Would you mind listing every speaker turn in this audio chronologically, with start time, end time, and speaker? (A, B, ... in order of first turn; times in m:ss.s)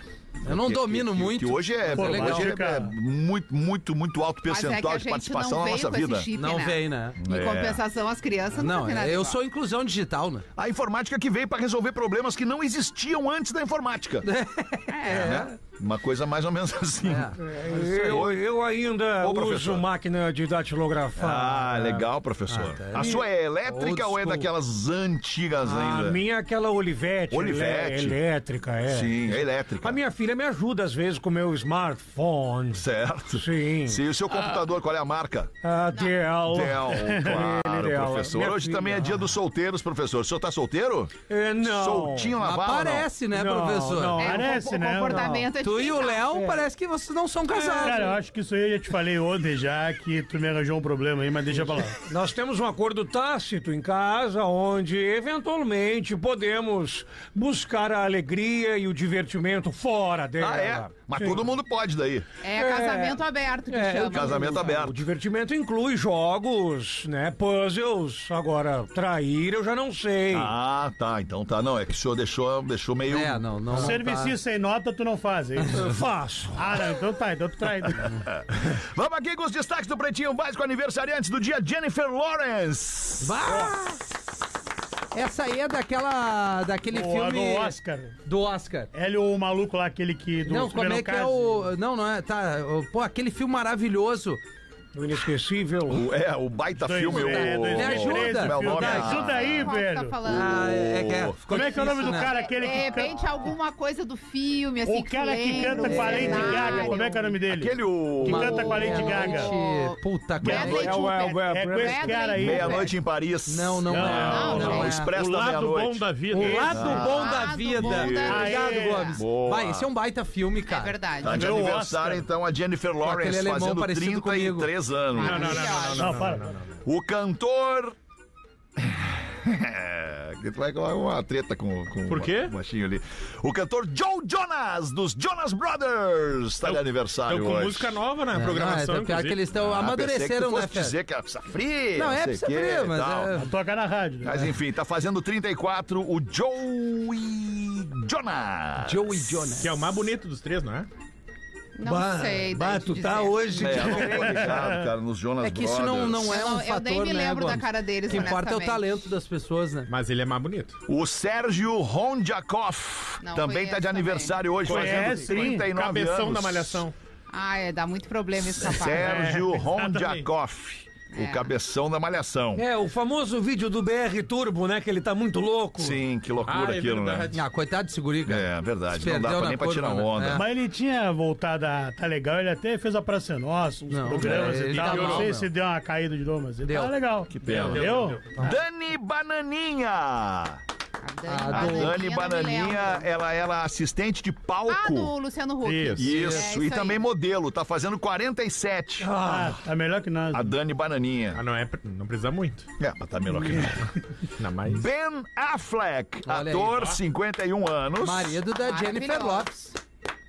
0:00.4-0:06.3 A
0:00.4-0:02.6 B
0:02.0-0:02.9 C
0:04.5-0:09.4 D
0:06.3-0:07.2 B
0:07.2-0:07.8 A
0:08.5-0:10.4 B
0:10.6-0:14.3 A
0:14.2-0:15.6 B
0:14.9-0:15.5 D
0:15.1-0:18.4 A
0:17.0-0:18.3 B
0:17.4-0:22.0 E
0:19.2-0:19.9 A
0:21.2-0:26.2 A
0:22.5-0:24.5 B
0:22.9-0:23.2 E
0:25.6-0:32.8 E
0:27.3-0:28.2 A
0:28.9-0:30.0 A
0:32.7-0:35.5 A
0:33.4-0:34.0 E
0:35.6-0:39.3 E
0:35.9-0:36.2 D
0:36.5-0:43.1 A
0:36.6-0:37.4 C
0:41.3-0:42.4 E
0:42.4-0:44.3 B
0:43.3-0:45.5 E
0:44.2-0:46.2 D
0:44.2-0:45.3 C
0:45.6-0:48.1 B
0:46.3-0:46.7 E
0:47.5-0:48.2 E
0:47.8-0:52.0 C
0:51.6-1:01.4 E
1:00.4-1:02.3 A
1:02.4-1:04.7 D
1:02.6-1:10.5 E
1:04.1-1:05.0 A
1:10.3-1:13.4 A
1:13.1-1:14.4 B
1:13.8-1:15.8 C
1:15.7-1:16.6 E
1:16.5-1:18.1 C
1:18.3-1:23.7 A
1:23.2-1:24.1 B
1:25.1-1:28.9 B
1:26.9-1:28.2 C
1:28.9-1:31.5 C
1:30.5-1:34.4 B
1:35.0-1:36.1 E
1:35.9-1:39.7 A
1:36.8-1:40.3 C
1:37.1-1:39.2 B
1:39.1-1:40.6 D
1:40.3-1:42.6 B
1:40.3-1:41.4 A
1:41.5-1:43.3 C
1:41.7-1:47.2 D
1:44.9-1:49.5 C
1:45.8-1:46.9 B
1:46.0-1:46.4 E
1:47.5-1:48.6 A
1:48.3-1:51.0 B
1:48.7-1:53.0 D
1:50.4-1:50.9 C
1:50.5-1:52.4 E
1:51.5-1:52.9 C
1:52.4-1:56.1 A
1:53.5-1:55.1 B
1:53.9-1:54.8 C
1:54.2-1:54.9 D
1:54.5-1:56.7 F
1:56.3-1:57.5 E
1:56.4-1:57.0 C
1:56.5-2:01.0 B
1:56.7-1:58.5 A
1:56.9-1:59.2 D
1:58.2-1:59.1 C
1:59.2-1:59.9 A
2:00.7-2:01.5 D
2:01.2-2:06.0 A
2:01.2-2:02.2 C
2:03.0-2:04.7 B
2:05.2-2:06.3 D
2:05.2-2:06.8 F
2:05.2-2:06.5 C
2:06.8-2:08.0 A
2:08.8-2:18.0 A
2:12.1-2:12.5 F
2:16.6-2:19.4 F
2:18.3-2:21.0 B
2:19.5-2:23.3 A
2:22.0-2:23.5 B
2:23.3-2:24.5 C
2:24.2-2:29.4 A
2:28.8-2:30.1 B
2:29.6-2:30.9 F
2:31.8-2:34.0 D
2:31.8-2:34.5 E
2:33.6-2:36.4 A
2:34.1-2:34.8 C
2:35.4-2:39.9 B
2:36.3-2:38.9 D
2:39.9-2:40.8 F
2:40.9-2:46.8 A
2:43.2-2:44.4 D
2:44.6-2:47.0 F
2:44.7-2:45.7 C
2:47.3-2:49.4 D
2:48.4-2:52.6 A
2:49.0-2:50.3 F
2:51.1-2:51.5 D
2:52.6-2:56.0 E
2:55.8-2:57.4 A
2:56.5-2:57.4 F
2:57.3-3:00.5 B
2:58.3-3:00.4 A
3:00.3-3:08.6 C
3:03.9-3:05.5 B
3:04.1-3:05.3 F
3:06.6-3:07.0 B
3:07.3-3:10.6 A
3:07.4-3:08.2 F
3:11.0-3:13.1 D
3:11.3-3:12.0 B
3:11.5-3:15.1 A
3:14.7-3:17.0 D
3:15.6-3:16.2 F
3:16.0-3:19.1 A
3:16.1-3:16.4 B
3:19.0-3:19.6 E
3:19.2-3:20.5 C
3:20.3-3:21.4 A
3:21.3-3:22.7 F
3:22.8-3:23.9 A
3:24.4-3:24.9 F
3:24.6-3:28.4 A
3:26.3-3:26.8 B
3:28.0-3:29.8 B
3:28.6-3:29.5 D